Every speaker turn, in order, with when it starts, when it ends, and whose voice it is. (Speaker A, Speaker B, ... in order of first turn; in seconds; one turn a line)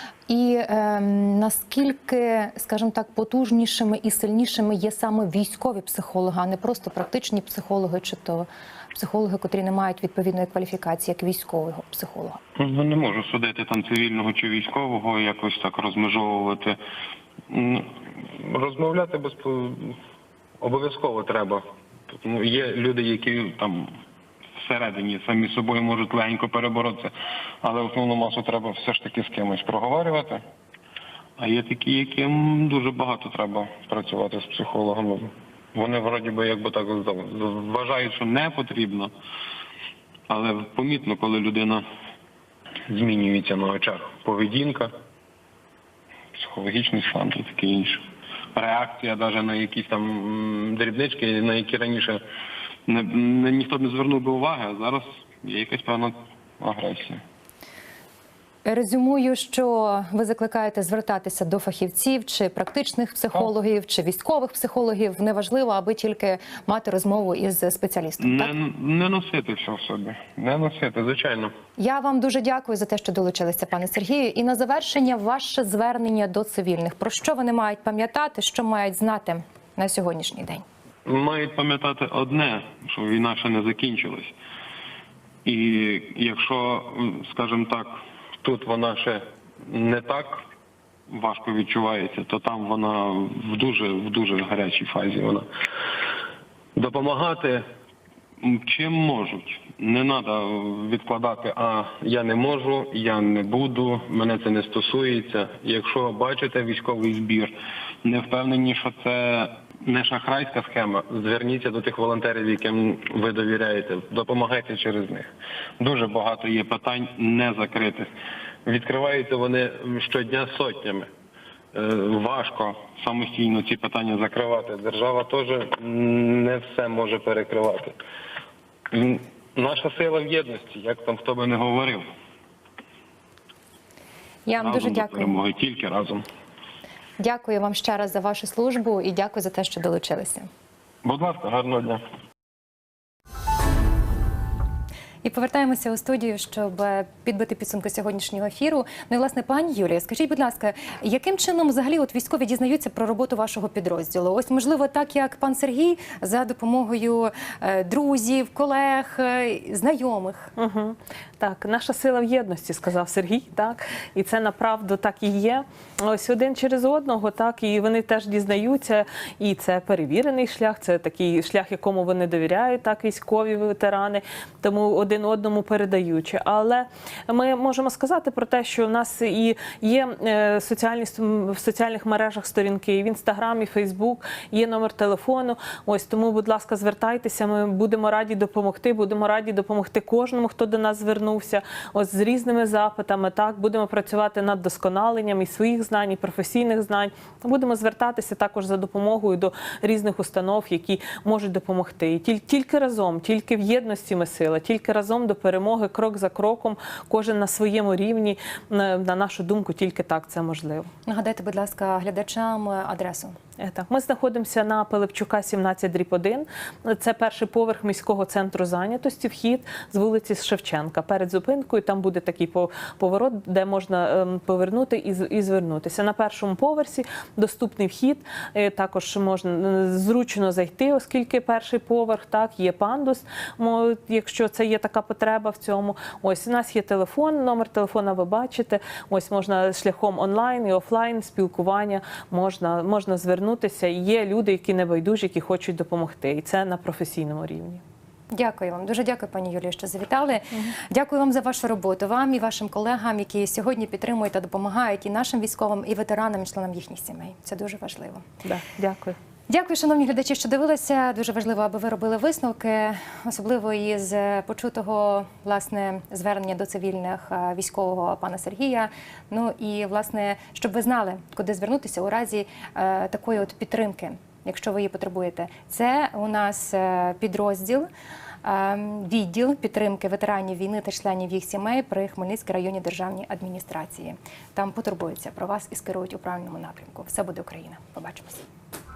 Speaker A: 0.3-12.4
Speaker B: 12.6-16.8
Speaker B: 17.5-20.0
Speaker B: 20.6-23.9
Speaker B: 24.6-30.4
Speaker B: 31.4-39.1
Speaker B: 40.3-41.8
Speaker B: 42.9-44.9
Speaker B: 46.3-52.2
Speaker B: 52.9-57.2
Speaker A: 58.6-68.5
Speaker B: 68.2-71.5
Speaker A: 71.8-80.7
Speaker B: 81.0-84.3
Speaker B: 85.5-90.4
Speaker B: 91.1-95.5
Speaker B: 96.8-97.7
Speaker B: 98.4-107.5
Speaker B: 108.0-115.3
Speaker B: 115.8-118.1
Speaker B: 118.7-121.1
Speaker B: 121.7-128.0
Speaker B: 128.9-132.1
Speaker A: 134.5-135.4
Speaker B: 134.6-136.2
Speaker A: 137.2-140.5
Speaker B: 141.0-142.0
Speaker A: 145.2-160.5
Speaker C: 160.6-210.9
Speaker A: 211.1-213.4
Speaker C: 213.6-247.8
Speaker A: 248.3-258.2
Speaker C: 258.4-259.2
Speaker A: 259.5-277.9
Speaker A: 278.4-288.4